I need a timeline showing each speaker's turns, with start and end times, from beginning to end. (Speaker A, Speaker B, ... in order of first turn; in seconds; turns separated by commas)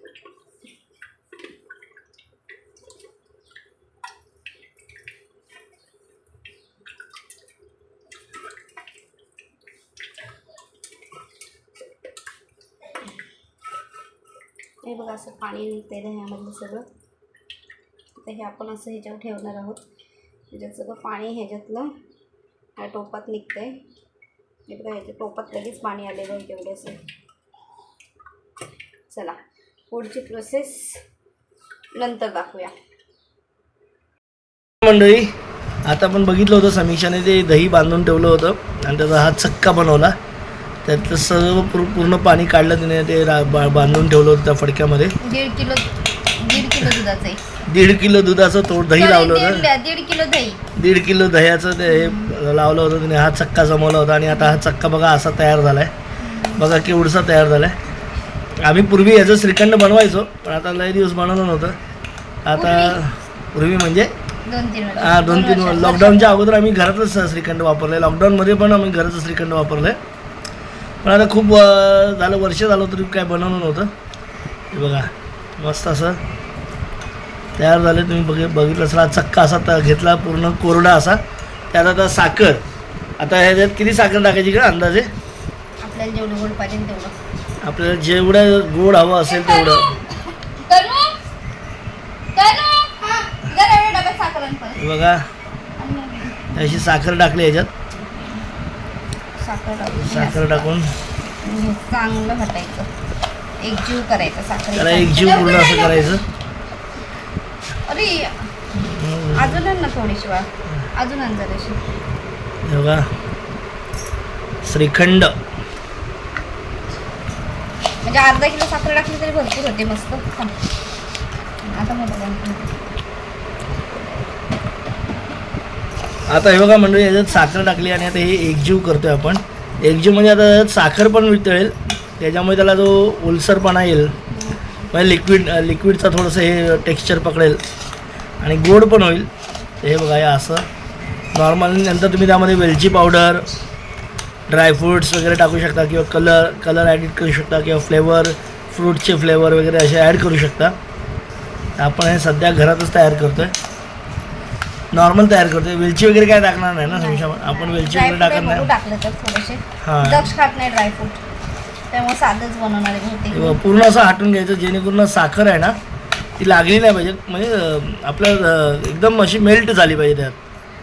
Speaker A: 14.8-16.9, Speaker A: 18.2-19.8, Speaker A: 20.5-21.9, Speaker A: 22.8-23.8, Speaker A: 24.7-27.0, Speaker A: 29.1-29.4, Speaker A: 29.9-31.0, Speaker A: 31.9-32.7, Speaker B: 34.8-35.3, Speaker B: 35.9-40.1, Speaker B: 40.8-45.1, Speaker A: 45.2-47.4, Speaker B: 47.6-49.7, Speaker A: 49.0-50.6, Speaker B: 50.8-55.9, Speaker A: 51.9-52.4, Speaker A: 54.3-54.6, Speaker A: 56.2-56.6, Speaker B: 56.5-57.7, Speaker B: 58.6-61.7, Speaker B: 62.4-64.1, Speaker A: 62.5-63.0, Speaker A: 64.5-66.4, Speaker B: 65.0-70.0, Speaker B: 71.0-73.9, Speaker B: 74.7-76.2, Speaker B: 77.6-81.2, Speaker B: 81.7-82.6, Speaker B: 83.2-85.1, Speaker A: 85.8-87.1, Speaker B: 87.6-90.0, Speaker A: 89.3-91.2, Speaker A: 92.3-94.8, Speaker B: 94.8-95.3, Speaker A: 95.8-96.6, Speaker B: 96.5-97.7, Speaker A: 99.3-100.7, Speaker B: 99.9-100.9, Speaker A: 101.4-102.9, Speaker A: 103.6-106.2, Speaker B: 104.7-106.2, Speaker A: 107.9-108.5, Speaker B: 108.7-109.6, Speaker A: 109.3-111.8, Speaker B: 112.6-113.0, Speaker B: 114.6-115.3, Speaker A: 118.0-120.5, Speaker A: 121.7-122.8, Speaker B: 126.3-134.1, Speaker A: 134.3-134.9, Speaker B: 134.9-137.6, Speaker B: 138.4-139.3, Speaker B: 139.8-140.7, Speaker B: 141.3-143.4, Speaker B: 144.5-150.8, Speaker B: 151.8-153.5, Speaker B: 154.9-158.7, Speaker A: 156.8-161.2, Speaker B: 159.8-160.3, Speaker A: 161.9-163.6, Speaker B: 163.3-165.7, Speaker B: 166.4-170.4